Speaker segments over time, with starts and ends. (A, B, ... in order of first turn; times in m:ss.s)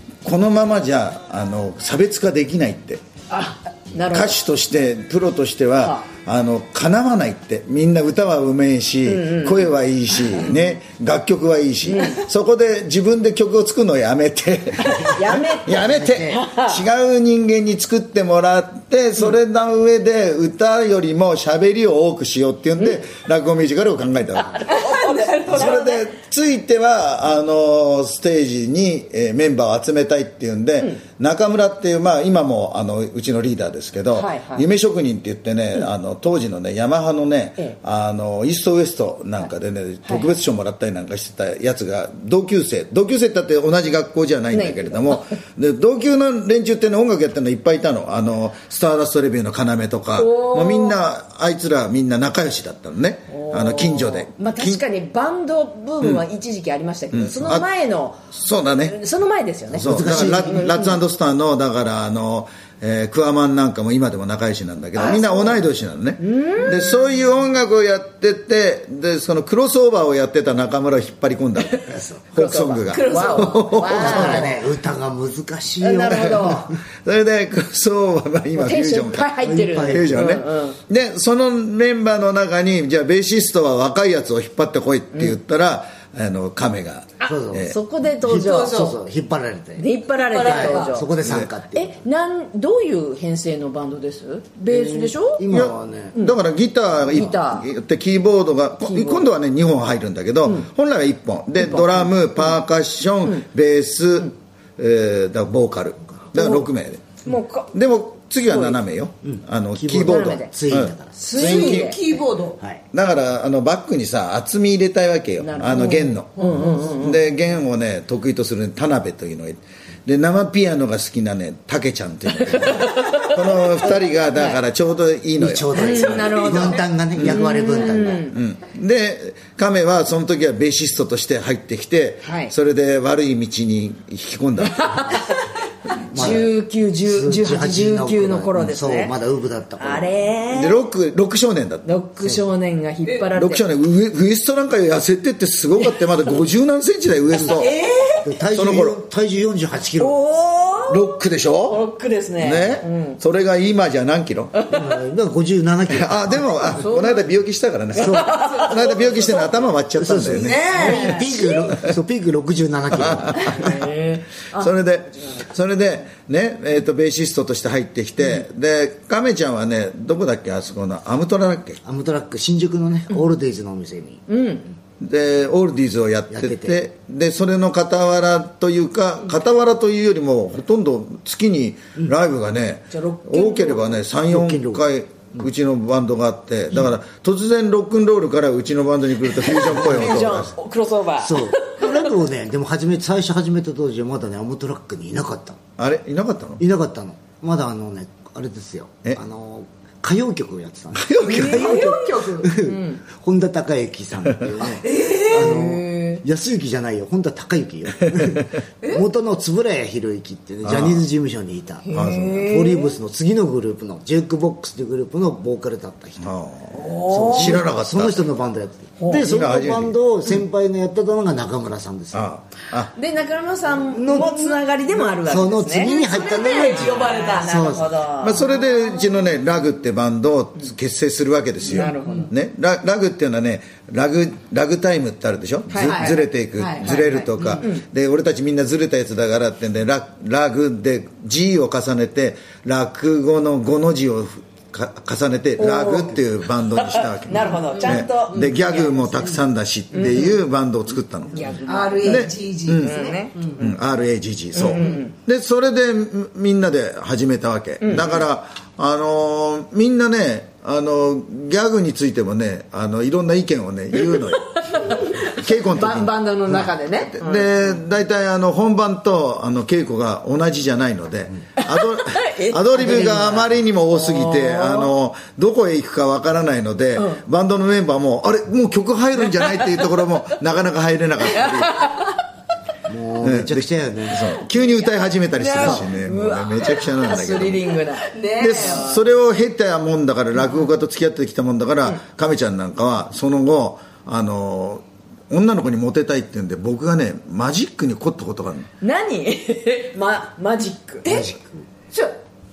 0:00.2-0:03.0 A
0:03.3-0:04.4 B
0:04.1-0:24.7 A
0:05.8-0:06.1 B
0:09.0-0:10.6 B
0:11.8-0:12.2 B
0:14.8-0:16.8 B
0:15.7-0:16.4 C
0:24.5-0:26.0 B
0:24.7-0:25.9 D
0:25.5-0:54.8 A
0:34.1-0:34.7 B
0:40.0-0:40.3 B
0:44.5-0:45.3 B
0:50.2-0:51.0 B
0:53.3-0:58.2 B
0:56.0-0:56.2 A
0:57.1-0:57.7 A
0:58.3-0:59.0 A
0:58.8-1:01.0 B
0:59.7-1:14.5 A
0:59.7-1:00.7 C
1:04.9-1:05.5 B
1:06.2-1:07.0 B
1:11.9-1:12.2 C
1:12.3-1:14.6 B
1:13.1-1:13.4 D
1:13.7-1:16.7 C
1:15.8-1:16.7 B
1:16.1-1:19.4 A
1:18.5-1:20.8 B
1:19.4-1:20.3 C
1:19.9-1:27.8 A
1:25.1-1:25.4 B
1:27.2-1:28.8 B
1:27.2-1:32.0 C
1:28.3-1:29.0 D
1:29.8-1:35.5 B
1:30.1-1:31.0 D
1:31.2-1:31.5 A
1:34.7-1:36.2 C
1:35.5-1:47.2 A
1:37.1-1:37.7 B
1:38.8-1:39.3 B
1:41.6-1:42.6 B
1:46.3-1:46.7 B
1:47.2-1:47.7 B
1:47.7-1:51.9 A
1:48.4-1:48.8 B
1:49.2-1:51.3 C
1:50.0-1:50.5 B
1:51.2-1:52.1 B
1:51.3-1:52.6 D
1:52.9-2:06.3 A
1:55.4-1:57.2 B
2:02.4-2:04.6 B
2:05.4-2:08.3 C
2:05.7-2:08.4 B
2:07.1-2:07.5 A
2:08.3-2:15.2 A
2:12.2-2:12.5 B
2:14.6-2:15.5 B
2:16.1-2:19.1 B
2:16.1-2:16.4 A
2:16.1-2:20.1 C
2:19.8-2:20.8 B
2:20.5-2:22.0 A
2:21.8-2:23.6 B
2:23.3-2:27.7 A
2:27.4-2:27.7 C
2:27.4-2:28.3 B
2:28.2-2:30.2 C
2:28.5-2:29.0 A
2:30.0-2:33.2 B
2:30.9-2:31.8 A
2:32.4-2:34.5 A
2:34.5-2:35.0 B
2:34.7-2:36.8 C
2:35.9-2:41.1 A
2:36.7-2:37.3 B
2:37.9-2:38.4 C
2:37.9-2:39.6 B
2:40.0-2:43.7 C
2:40.3-2:41.7 B
2:42.9-2:43.8 A
2:43.4-2:45.4 B
2:44.5-2:51.8 A
2:51.8-2:54.2 C
2:54.3-2:54.7 B
2:55.0-3:10.5 A
2:56.3-2:56.8 C
3:02.9-3:04.0 B
3:04.2-3:04.8 C
3:09.4-3:12.1 B
3:09.7-3:10.2 C
3:11.2-3:15.6 C
3:15.8-3:16.6 A
3:16.6-3:36.3 C
3:21.0-3:21.7 A
3:21.3-3:22.5 D
3:21.3-3:22.0 B
3:22.5-3:23.0 B
3:24.8-3:25.6 D
3:25.3-3:26.2 B
3:30.6-3:31.0 A
3:31.8-3:33.0 B
3:31.9-3:32.4 A
3:36.2-3:38.3 A
3:36.7-3:37.6 B
3:37.0-3:42.3 C
3:39.0-3:39.3 B
3:39.1-3:40.0 A
3:42.1-3:42.9 A
3:42.9-3:49.1 B
3:43.8-3:44.6 C
3:45.2-3:48.0 C
3:45.8-3:47.7 D
3:48.2-4:13.0 A
3:51.6-3:52.3 B
3:51.7-3:52.3 D
3:55.7-3:57.8 B
3:56.6-3:57.6 D
4:05.6-4:09.3 B
4:07.3-4:09.4 D
4:09.9-4:10.4 B
4:11.3-4:13.6 D
4:11.3-4:13.7 B
4:13.6-4:41.9 A
4:14.5-4:15.2 B
4:17.8-4:18.2 B
4:23.9-4:27.8 B
4:31.6-4:34.9 B
4:37.0-4:37.2 B
4:39.3-4:39.8 B
4:41.3-4:42.2 B
4:42.9-4:44.3 C
4:43.2-4:47.7 A
4:45.3-4:49.0 B
4:48.0-4:48.9 D
4:48.4-4:58.7 A
4:58.8-5:01.2 B
5:01.0-5:01.7 C
5:01.9-5:02.2 D